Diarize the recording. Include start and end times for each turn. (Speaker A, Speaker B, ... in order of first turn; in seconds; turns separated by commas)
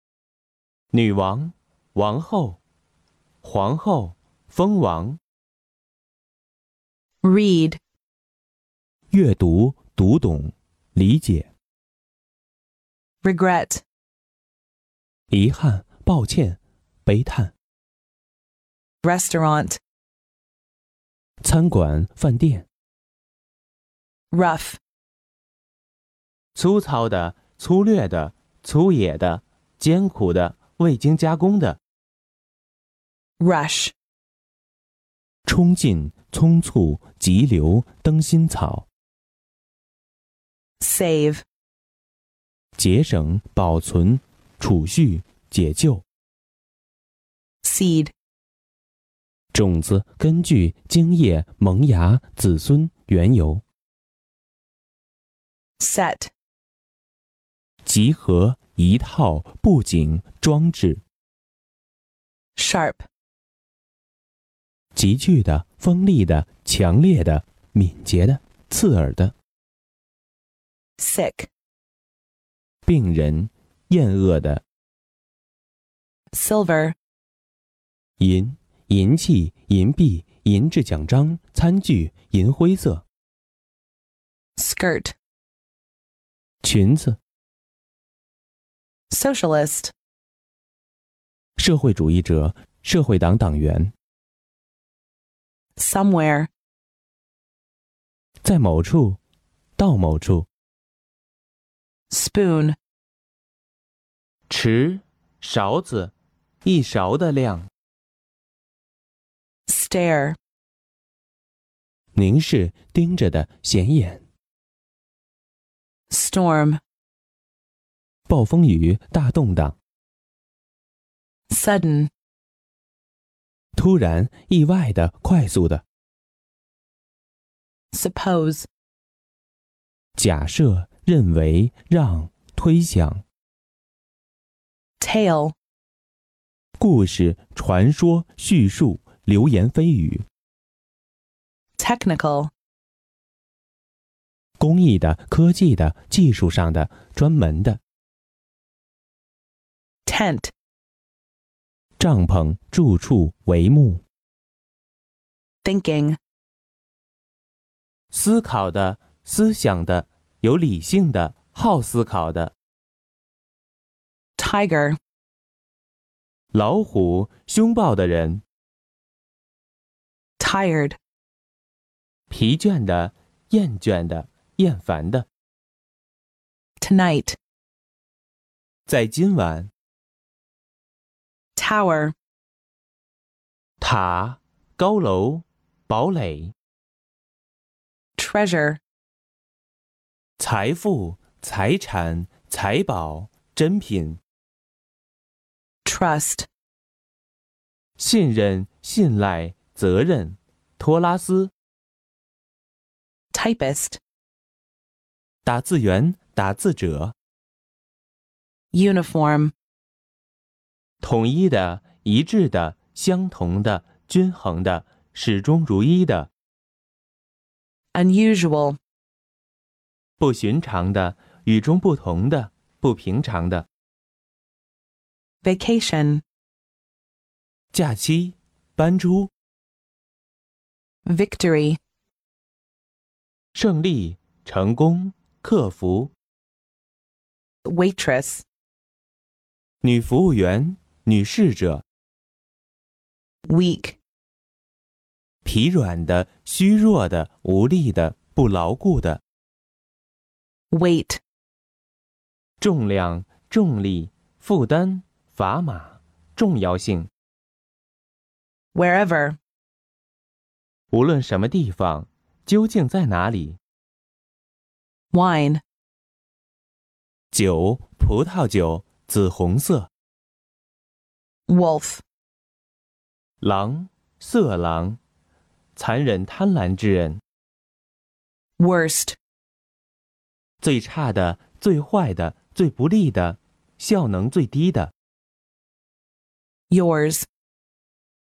Speaker A: 0.9-2.6, Speaker A: 3.4-5.2, Speaker B: 7.2-7.8, Speaker A: 9.1-11.5, Speaker B: 13.2-13.8, Speaker A: 15.3-17.5, Speaker B: 19.0-19.8, Speaker A: 21.4-22.6, Speaker B: 24.3-24.8, Speaker A: 26.5-31.8, Speaker B: 33.4-33.9, Speaker A: 35.5-38.9, Speaker B: 40.8-41.4, Speaker A: 42.8-46.0, Speaker B: 47.6-48.1, Speaker A: 49.5-53.6, Speaker B: 55.8-56.3, Speaker A: 57.8-61.0, Speaker B: 62.5-63.0, Speaker A: 65.0-69.3, Speaker B: 71.0-71.5, Speaker A: 72.8-74.6, Speaker B: 76.3-77.0, Speaker A: 78.2-83.0, Speaker B: 84.6-85.1, Speaker A: 86.6-87.2, Speaker B: 89.1-89.9, Speaker A: 91.6-93.9, Speaker B: 95.8-96.5, Speaker A: 98.4-99.2, Speaker A: 99.8-100.5, Speaker B: 102.1-102.8, Speaker A: 104.5-107.7, Speaker B: 109.7-110.4, Speaker A: 112.1-114.2, Speaker B: 116.1-116.8, Speaker A: 118.3-119.8, Speaker B: 121.5-122.1, Speaker A: 123.7-125.8, Speaker B: 127.9-128.7, Speaker A: 130.2-133.2, Speaker B: 135.0-135.5, Speaker A: 136.8-140.2, Speaker B: 141.8-142.5, Speaker A: 144.6-147.8, Speaker B: 150.1-150.5, Speaker A: 152.0-154.0, Speaker B: 155.6-156.2, Speaker A: 158.1-162.5, Speaker B: 164.4-165.0, Speaker A: 166.5-168.4, Speaker B: 170.4-171.0, Speaker A: 172.3-175.3, Speaker B: 176.8-177.4, Speaker A: 178.9-179.7, Speaker B: 181.6-182.1, Speaker A: 183.8-186.5, Speaker B: 188.2-188.8, Speaker A: 190.4-194.2, Speaker B: 195.8-196.5, Speaker A: 198.0-201.5, Speaker B: 203.3-204.0, Speaker A: 205.4-207.1, Speaker B: 208.7-209.5, Speaker A: 211.0-216.3, Speaker B: 217.9-218.8, Speaker A: 220.2-223.7, Speaker B: 225.4-226.2, Speaker A: 227.7-229.3, Speaker B: 231.0-231.8, Speaker A: 233.5-236.1, Speaker B: 237.6-238.4, Speaker A: 239.8-241.8, Speaker B: 243.4-244.0, Speaker A: 245.4-249.2, Speaker B: 250.7-251.2, Speaker A: 252.6-257.1, Speaker B: 258.7-259.4, Speaker A: 260.9-263.6, Speaker B: 265.1-265.6, Speaker A: 267.3-269.9, Speaker B: 271.5-272.0, Speaker A: 273.4-275.0, Speaker A: 275.8-277.2, Speaker B: 278.6-279.2, Speaker A: 280.6-284.9, Speaker B: 286.7-287.3